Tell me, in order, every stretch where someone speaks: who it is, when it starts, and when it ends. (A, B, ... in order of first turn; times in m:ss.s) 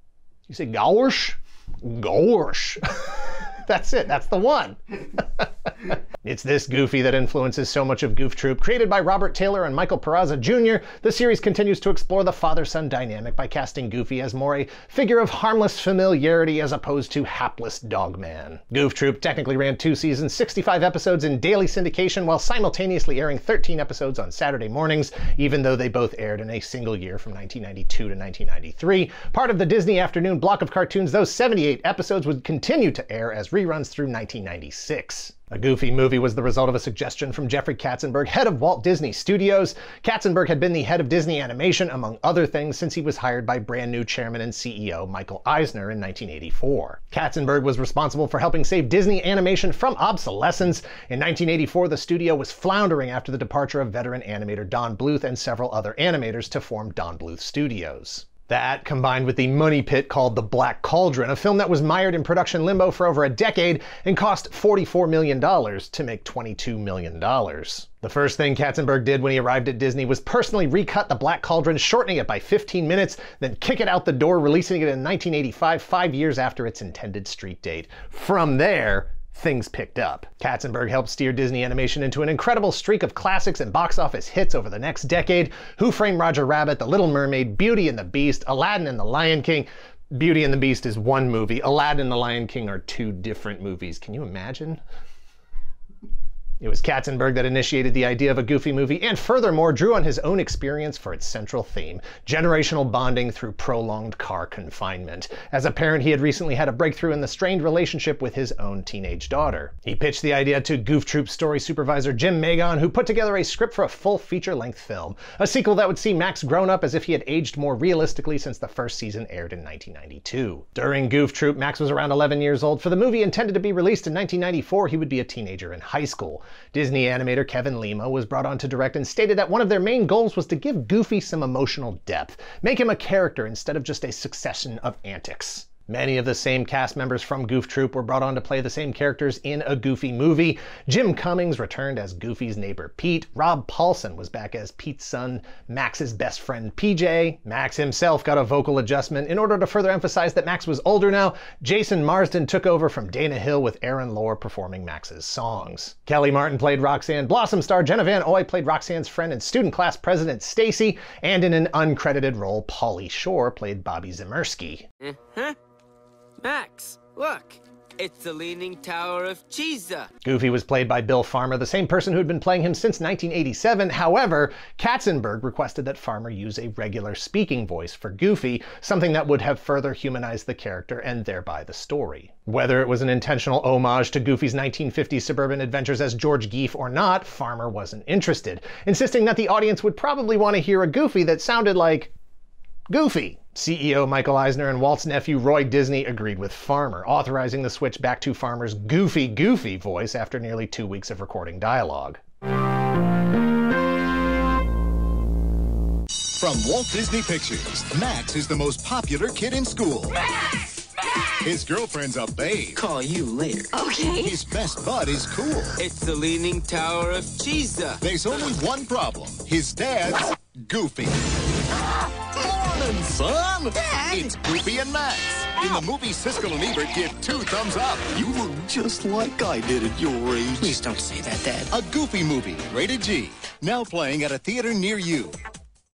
0:00.5-1:34.8 A
1:36.6-2:44.9 A
2:45.0-2:45.6 B
2:46.4-2:50.1 B
2:50.2-3:12.1 A
3:12.9-3:22.2 A
3:26.3-3:30.2 C
3:31.4-3:32.8 C
3:32.7-3:34.4 D
3:34.2-3:35.8 C
3:35.8-3:38.0 B
3:38.0-3:41.2 C
3:42.2-3:50.8 C
3:44.0-3:44.2 D
3:50.6-3:51.7 D
3:51.7-3:55.3 C